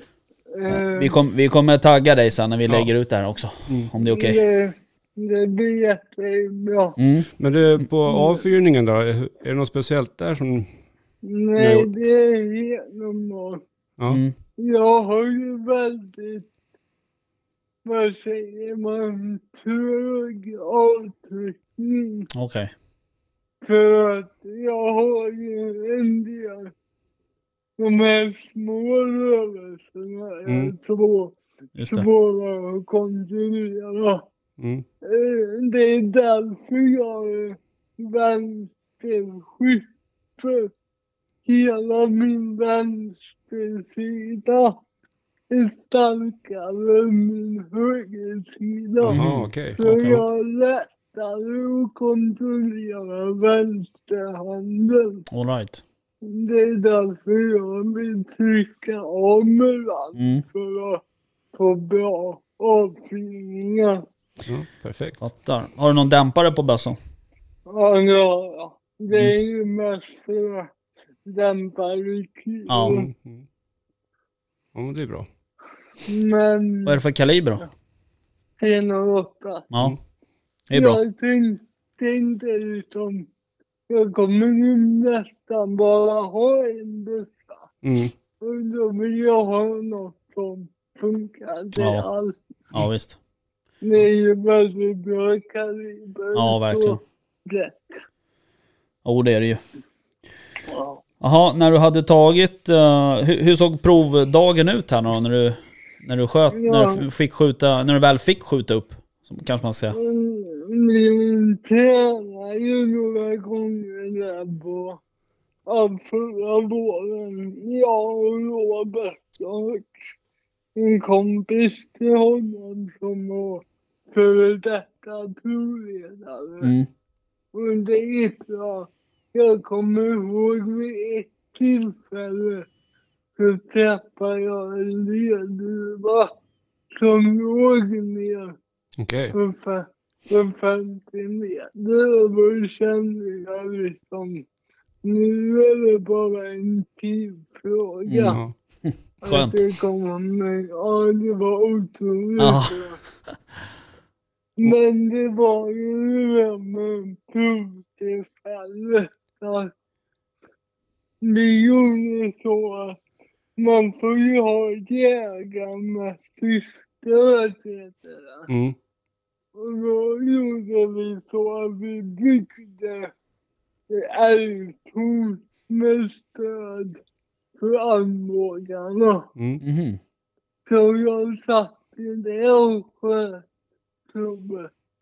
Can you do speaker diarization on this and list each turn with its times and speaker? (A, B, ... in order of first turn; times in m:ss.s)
0:00.5-0:01.2 A
0:00.7-0:04.4 B
0:04.0-0:07.0 A
0:07.0-0:07.3 B
0:07.4-0:10.7 C
0:08.1-0:08.4 A
0:11.2-0:13.6 A
0:11.6-0:11.9 B
0:14.1-0:14.3 B
0:14.6-0:16.4 A
0:17.8-0:22.3 A
0:22.3-0:22.7 B
0:23.6-0:26.7 A
0:27.8-0:34.2 A
0:30.5-0:30.7 C
0:31.8-0:32.1 B
0:34.6-0:34.9 C
0:35.0-0:39.8 A
0:40.4-0:40.7 A
0:41.4-0:44.8 A
0:45.5-0:55.2 A
0:49.0-0:49.8 C
0:49.1-0:50.2 B
0:55.3-0:55.8 B
0:56.2-1:01.0 A
1:00.2-1:00.4 B
1:01.5-1:04.0 A
1:04.4-1:05.2 C
1:05.2-1:07.0 B
1:07.7-1:10.7 A
1:11.3-1:13.1 A
1:12.7-1:13.0 B
1:12.8-1:13.4 C
1:14.7-1:15.3 C
1:16.0-1:17.0 A
1:16.9-1:17.6 B
1:18.6-1:19.7 A
1:20.7-1:21.0 B
1:20.7-1:23.3 A
1:23.9-1:27.7 A
1:27.8-1:28.1 C
1:28.4-1:32.4 A
1:31.8-1:32.0 B
1:32.7-1:33.2 B
1:33.8-1:38.0 A
1:36.4-1:37.0 B
1:39.0-1:39.6 B
1:40.7-1:41.0 A
1:41.2-1:50.0 B
1:46.5-1:47.0 A
1:49.9-1:55.0 A
1:55.7-1:59.9 A
2:00.8-2:06.7 A
2:06.6-2:06.9 B
2:07.5-2:12.7 A
2:13.4-2:16.3 A
2:16.9-2:18.6 A
2:19.0-2:19.4 C
2:19.3-2:24.4 A
2:25.0-2:28.4 A
2:28.1-2:29.6 B
2:28.3-2:28.5 C
2:29.2-2:33.0 A
2:32.4-2:32.8 B
2:34.6-2:39.7 A
2:41.2-2:43.0 A
2:43.6-2:48.5 A
2:48.5-2:48.8 C
2:49.6-2:53.1 A
2:53.9-2:57.0 A
2:57.6-2:59.3 A
2:59.4-2:59.6 C
2:59.6-3:00.0 B
3:00.7-3:03.4 A
3:04.1-3:04.7 A